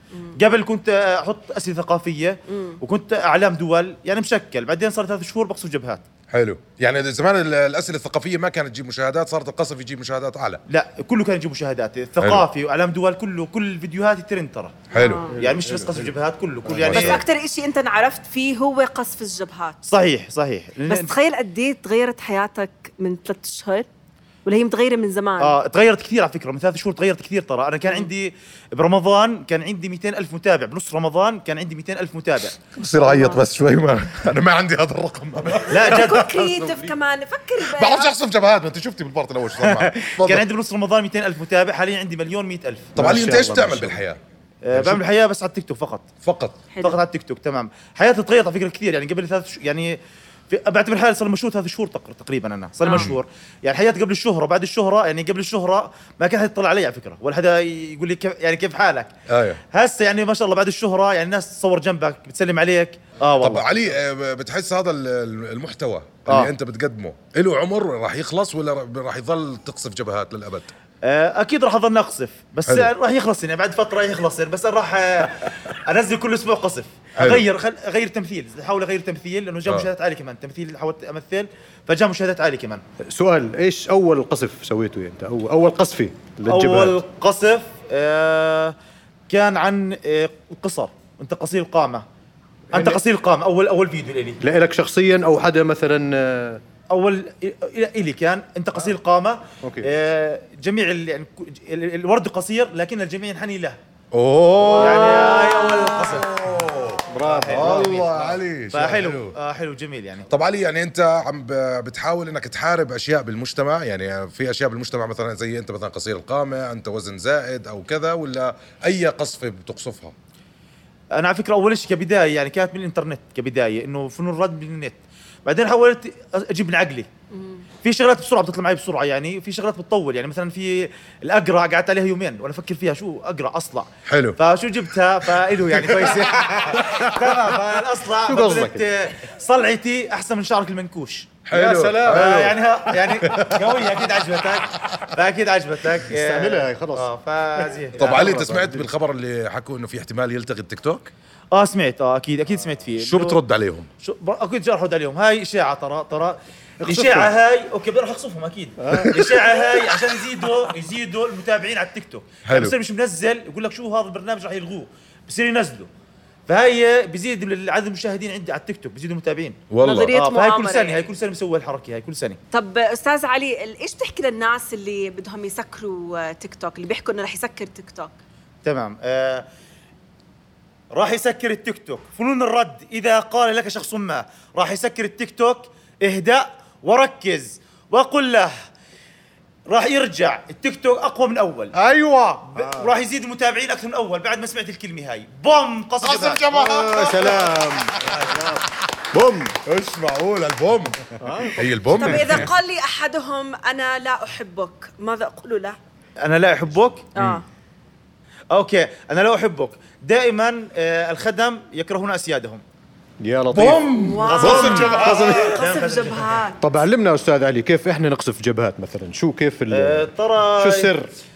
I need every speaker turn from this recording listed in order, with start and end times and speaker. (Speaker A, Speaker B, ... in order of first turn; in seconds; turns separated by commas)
Speaker A: 0.4-6.0, Speaker B: 2.5-2.8, Speaker C: 6.3-10.6, Speaker A: 10.7-14.8, Speaker C: 14.9-15.3, Speaker B: 14.9-15.3, Speaker D: 15.3-16.2, Speaker A: 15.3-17.2, Speaker D: 16.7-17.0, Speaker C: 16.8-17.2, Speaker B: 16.9-19.8, Speaker A: 19.9-21.1, Speaker B: 20.9-23.9, Speaker B: 24.4-25.6, Speaker A: 25.4-32.6, Speaker C: 32.7-36.1, Speaker B: 33.0-33.4, Speaker A: 35.7-36.2, Speaker B: 35.8-38.1, Speaker D: 36.5-36.9, Speaker C: 37.6-40.4, Speaker A: 39.6-42.9, Speaker D: 43.0-44.0, Speaker C: 43.0-44.2, Speaker A: 44.6-46.1, Speaker C: 44.7-45.0, Speaker C: 46.2-46.6, Speaker A: 46.8-50.0, Speaker A: 50.5-59.1, Speaker B: 52.8-53.1, Speaker C: 52.9-53.2, Speaker C: 59.3-59.6, Speaker A: 59.7-63.7, Speaker C: 63.4-70.7, Speaker A: 66.3-66.5, Speaker A: 71.0-82.8, Speaker C: 77.2-77.4, Speaker D: 83.1-87.0, Speaker A: 86.5-88.8, Speaker A: 89.3-92.0, Speaker D: 92.7-93.0, Speaker A: 92.7-94.4, Speaker D: 94.4-96.6, Speaker A: 96.9-103.8, Speaker D: 99.6-99.9, Speaker C: 104.1-109.3, Speaker A: 104.8-106.3, Speaker D: 104.8-105.4, Speaker B: 105.1-105.8, Speaker D: 107.1-108.4, Speaker A: 107.2-110.3, Speaker C: 110.3-120.2, Speaker A: 121.2-127.1, Speaker B: 127.3-127.6, Speaker A: 127.8-141.3, Speaker C: 134.1-134.4, Speaker D: 135.9-136.2, Speaker D: 136.8-137.1, Speaker D: 138.3-138.9, Speaker C: 141.5-142.5, Speaker D: 141.5-143.5, Speaker A: 142.0-148.4, Speaker D: 146.1-148.9, Speaker C: 148.0-151.1, Speaker A: 151.5-153.4, Speaker C: 153.0-153.9, Speaker A: 154.0-165.9, Speaker D: 156.8-157.3, Speaker D: 158.8-159.7, Speaker C: 162.4-162.8, Speaker A: 166.5-169.6, Speaker C: 169.7-170.1, Speaker B: 169.8-171.1, Speaker A: 170.1-172.4, Speaker B: 172.5-178.1, Speaker A: 178.7-179.5, Speaker A: 180.9-188.5, Speaker A: 189.7-191.7, Speaker C: 191.8-192.5, Speaker A: 192.5-196.4, Speaker D: 192.6-192.9, Speaker C: 196.0-198.4, Speaker D: 196.5-199.6, Speaker C: 199.7-201.0, Speaker D: 201.2-202.4, Speaker C: 201.5-202.5, Speaker B: 202.0-205.8, Speaker A: 206.2-207.1, Speaker B: 207.2-207.4, Speaker A: 208.5-212.6, Speaker D: 213.2-215.7, Speaker C: 213.5-215.1, Speaker B: 214.0-216.6, Speaker A: 214.2-216.2, Speaker D: 216.6-221.2, Speaker A: 219.7-221.0